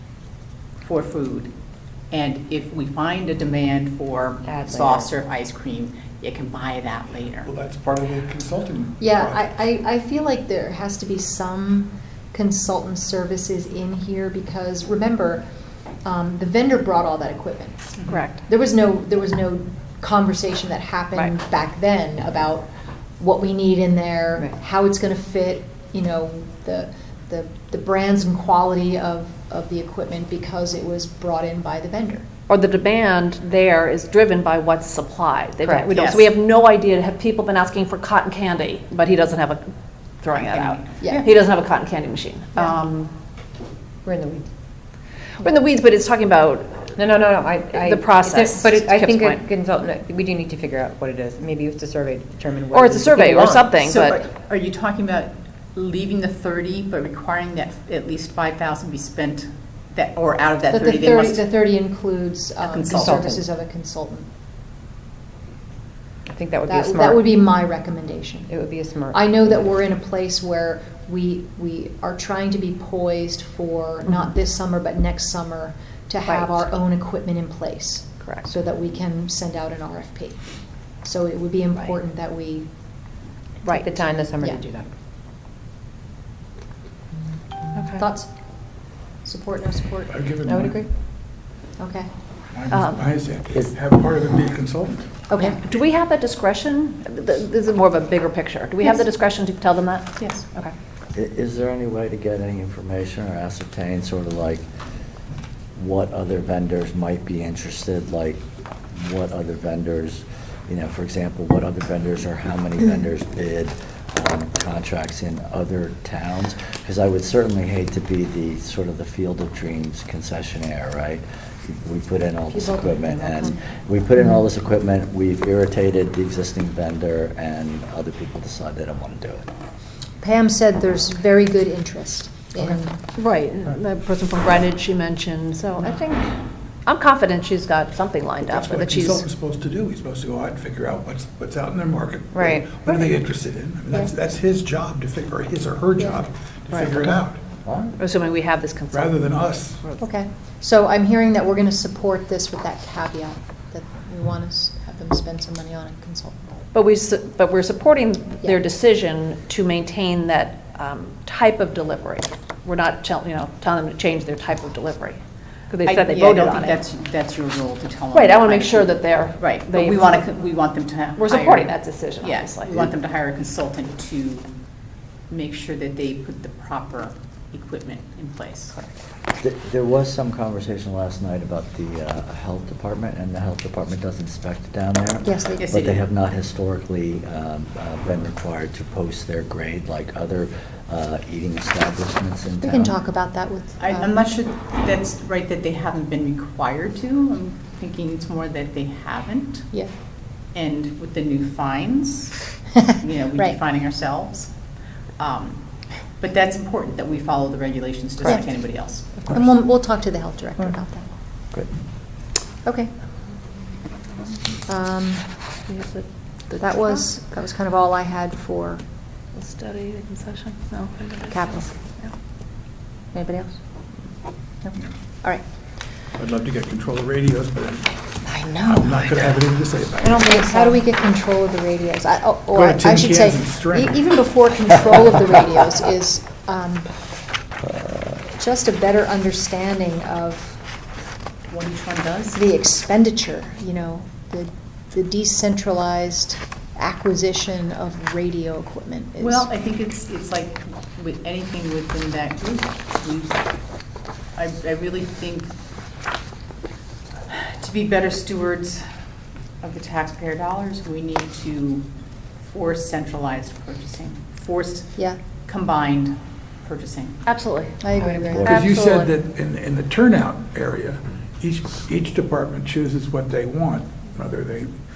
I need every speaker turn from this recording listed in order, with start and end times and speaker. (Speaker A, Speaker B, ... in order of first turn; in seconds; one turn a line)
Speaker A: 0.8-1.5
Speaker A: 2.1-7.5
Speaker B: 4.4-5.1
Speaker C: 7.4-9.5
Speaker D: 9.0-15.4
Speaker D: 16.0-22.7
Speaker A: 18.0-18.2
Speaker E: 18.1-18.3
Speaker D: 23.2-32.2
Speaker E: 32.5-39.7
Speaker B: 35.6-35.9
Speaker A: 35.9-36.3
Speaker E: 40.2-42.8
Speaker A: 40.3-41.3
Speaker A: 42.5-43.1
Speaker B: 44.0-44.5
Speaker E: 45.4-47.0
Speaker B: 47.0-53.8
Speaker E: 47.7-49.4
Speaker E: 52.7-54.2
Speaker A: 53.8-61.5
Speaker D: 60.7-64.2
Speaker A: 62.6-63.2
Speaker B: 62.9-63.5
Speaker B: 66.3-67.5
Speaker D: 66.7-68.5
Speaker B: 68.5-69.7
Speaker D: 69.1-82.7
Speaker E: 76.2-76.6
Speaker E: 78.2-78.5
Speaker E: 83.6-84.0
Speaker B: 83.7-84.9
Speaker E: 87.8-88.0
Speaker D: 88.0-88.3
Speaker D: 89.2-90.2
Speaker C: 90.1-90.8
Speaker B: 90.4-90.9
Speaker D: 91.8-92.1
Speaker C: 92.5-95.2
Speaker E: 92.7-93.1
Speaker D: 95.3-95.6
Speaker E: 95.5-100.7
Speaker A: 100.2-100.5
Speaker F: 101.1-104.6
Speaker F: 105.8-129.5
Speaker D: 122.5-123.7
Speaker D: 130.2-132.9
Speaker E: 133.2-136.2
Speaker E: 136.8-139.2
Speaker C: 138.4-147.4
Speaker B: 142.3-142.9
Speaker D: 146.0-146.2
Speaker F: 147.6-147.9
Speaker E: 148.0-150.0
Speaker C: 148.9-149.8
Speaker D: 150.0-156.6
Speaker E: 156.7-166.8
Speaker A: 165.8-174.5
Speaker E: 168.1-170.1
Speaker E: 171.2-172.7
Speaker A: 175.3-178.8
Speaker F: 179.4-192.9
Speaker D: 185.2-185.7
Speaker A: 185.6-186.1
Speaker D: 192.6-194.2
Speaker A: 193.8-199.7
Speaker A: 200.5-204.5
Speaker A: 205.2-209.3
Speaker D: 208.2-211.1
Speaker D: 212.6-212.9
Speaker D: 214.7-215.3
Speaker E: 215.7-217.0
Speaker D: 216.5-218.8
Speaker E: 219.3-222.1
Speaker D: 221.3-221.7
Speaker D: 224.6-225.4
Speaker C: 226.1-227.9
Speaker D: 228.3-229.3
Speaker C: 228.6-230.3
Speaker D: 230.0-236.9
Speaker B: 230.3-230.7
Speaker C: 232.5-234.1
Speaker F: 237.8-238.1
Speaker D: 238.3-240.6
Speaker A: 241.5-242.4
Speaker D: 242.3-249.5
Speaker A: 249.2-253.5
Speaker A: 254.3-255.5
Speaker A: 257.3-258.8
Speaker A: 259.6-261.9
Speaker A: 262.4-267.2
Speaker E: 267.2-267.8
Speaker D: 267.8-268.6
Speaker B: 268.0-268.4
Speaker F: 268.3-268.6
Speaker C: 268.4-274.7
Speaker E: 268.4-269.1